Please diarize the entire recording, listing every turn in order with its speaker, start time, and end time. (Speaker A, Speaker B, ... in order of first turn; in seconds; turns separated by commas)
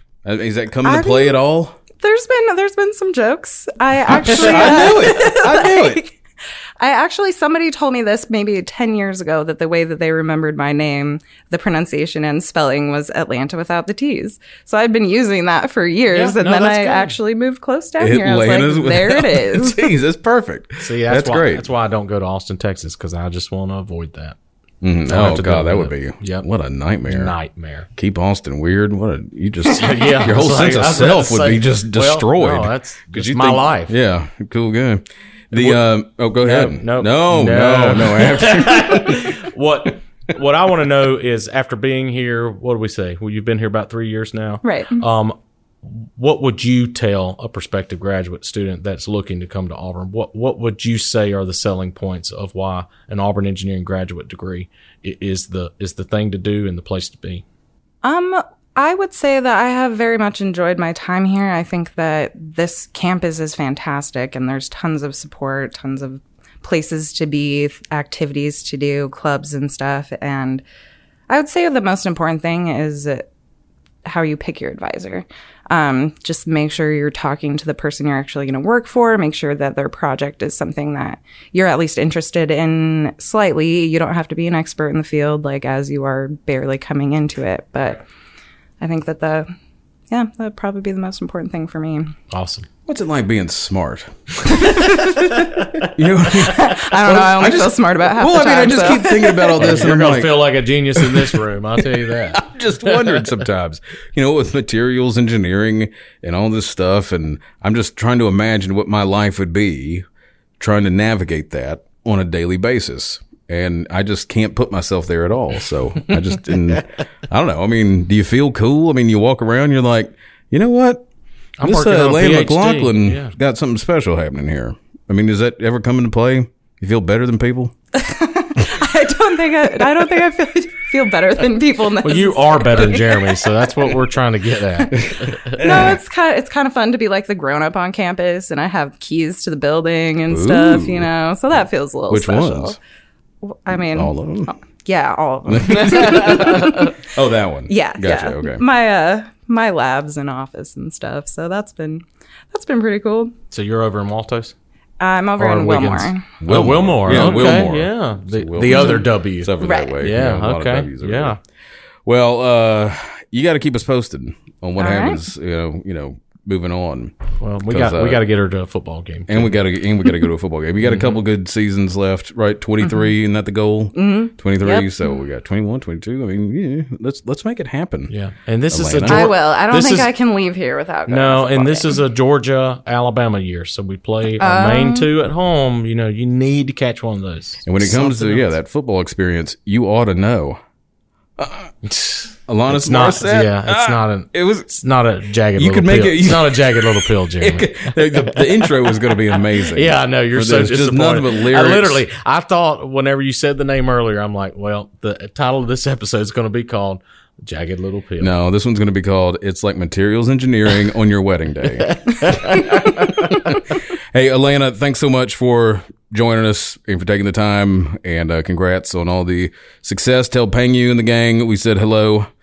Speaker A: 0.2-1.8, Speaker B: 0.8-1.4, Speaker B: 2.0-6.2, Speaker A: 4.2-6.1, Speaker B: 6.8-19.9, Speaker C: 16.1-17.2, Speaker A: 18.0-21.7, Speaker C: 20.8-24.4, Speaker A: 24.8-27.4, Speaker C: 25.1-26.5, Speaker C: 27.1-27.9, Speaker A: 28.0-39.3, Speaker C: 29.6-33.9, Speaker C: 35.5-35.8, Speaker C: 36.4-57.4, Speaker B: 44.6-45.0, Speaker B: 58.0-70.6, Speaker B: 71.3-73.3, Speaker B: 74.0-88.0, Speaker B: 88.8-89.5, Speaker B: 90.1-92.1, Speaker C: 92.3-92.7, Speaker A: 92.9-95.1, Speaker B: 94.5-95.3, Speaker C: 95.3-95.9, Speaker A: 95.9-110.0, Speaker B: 96.4-99.6, Speaker C: 99.5-103.3, Speaker A: 110.6-121.1, Speaker C: 121.6-123.3, Speaker A: 121.6-127.7, Speaker B: 128.0-133.4, Speaker C: 132.0-135.5, Speaker A: 135.0-136.0, Speaker B: 135.6-142.8, Speaker A: 140.3-141.1, Speaker A: 142.1-142.8, Speaker B: 143.4-147.0, Speaker A: 143.9-144.5, Speaker A: 145.5-148.6, Speaker B: 147.7-153.3, Speaker C: 153.5-154.5, Speaker B: 155.0-156.3, Speaker C: 155.4-161.4, Speaker A: 156.4-161.4, Speaker B: 157.1-157.6, Speaker B: 158.7-159.1, Speaker B: 159.6-160.0, Speaker A: 162.1-168.3, Speaker B: 164.8-165.2, Speaker C: 167.4-169.5, Speaker A: 169.3-178.1, Speaker C: 170.8-171.2, Speaker B: 173.9-175.1, Speaker C: 178.1-180.1, Speaker A: 178.7-179.3, Speaker B: 179.1-182.0, Speaker C: 181.1-188.5, Speaker B: 184.3-185.1, Speaker A: 187.6-190.6, Speaker A: 191.4-191.7, Speaker C: 191.9-208.4, Speaker A: 192.5-194.7, Speaker A: 195.6-202.1, Speaker A: 208.2-212.3, Speaker C: 212.2-212.9, Speaker A: 213.3-213.6, Speaker A: 214.1-222.3